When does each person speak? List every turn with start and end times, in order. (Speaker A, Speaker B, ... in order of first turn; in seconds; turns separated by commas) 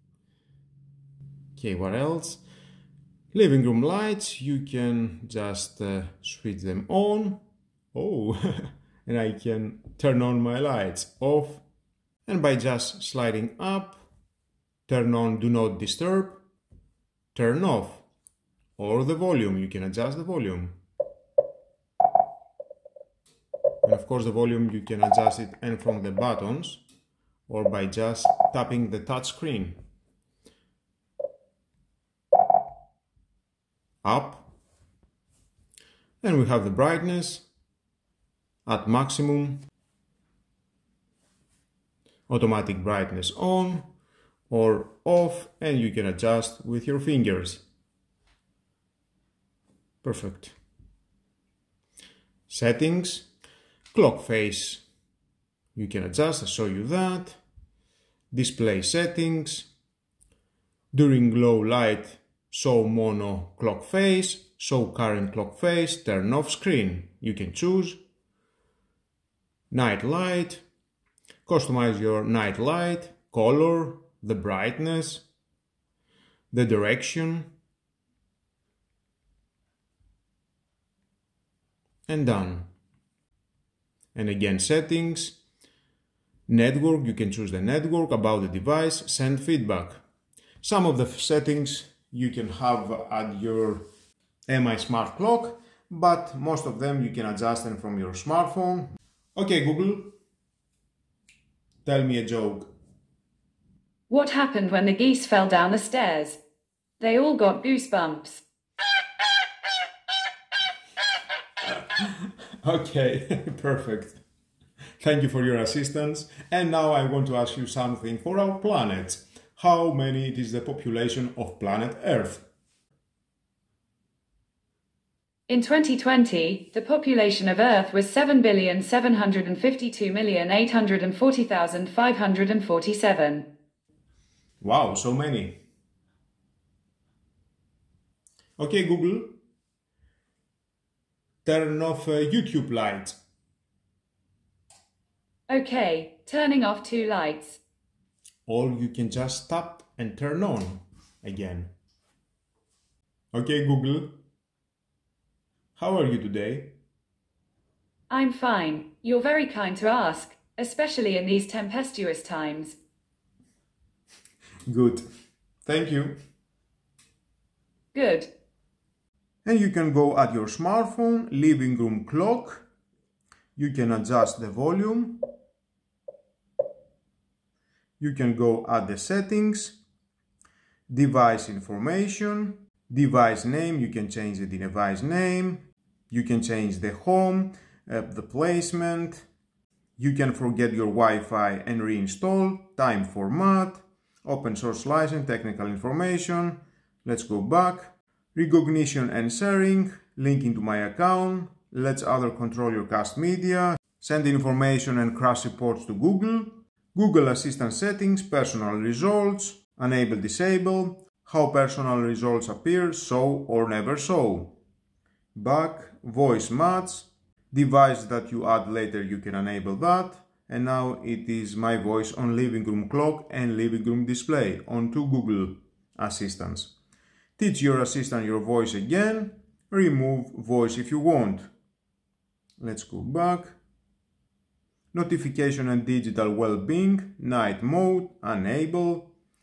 Speaker A: 1.6-2.4, Speaker A: 3.3-7.4, Speaker A: 7.9-11.6, Speaker A: 12.3-14.0, Speaker A: 14.9-16.4, Speaker A: 17.4-18.1, Speaker A: 18.8-20.8, Speaker A: 23.8-26.8, Speaker A: 27.5-29.8, Speaker A: 34.0-34.5, Speaker A: 36.2-37.5, Speaker A: 38.7-39.6, Speaker A: 42.3-43.9, Speaker A: 44.5-47.6, Speaker A: 50.0-50.6, Speaker A: 52.5-53.3, Speaker A: 53.9-54.9, Speaker A: 55.8-57.4, Speaker A: 58.3-59.7, Speaker A: 60.9-68.0, Speaker A: 69.7-70.6, Speaker A: 71.5-75.3, Speaker A: 76.5-77.5, Speaker A: 82.1-82.7, Speaker A: 84.2-85.4, Speaker A: 86.5-90.0, Speaker A: 90.6-93.8, Speaker A: 94.5-100.2, Speaker A: 101.8-102.7, Speaker B: 104.1-106.4, Speaker B: 107.0-108.4, Speaker A: 111.6-114.2, Speaker A: 115.0-122.5, Speaker B: 125.5-133.5, Speaker A: 134.6-135.6, Speaker A: 138.6-139.4, Speaker A: 141.4-143.2, Speaker B: 145.5-147.6, Speaker A: 148.5-151.7, Speaker A: 153.3-154.2, Speaker A: 155.8-156.7, Speaker B: 158.1-162.8, Speaker A: 164.7-165.1, Speaker A: 165.7-166.2, Speaker B: 167.9-168.3, Speaker A: 169.4-172.7, Speaker A: 173.6-175.3, Speaker A: 178.0-179.8, Speaker A: 180.9-189.3, Speaker A: 190.0-214.6, Speaker A: 215.3-226.7, Speaker A: 227.4-231.5, Speaker A: 232.6-233.6, Speaker A: 234.9-239.1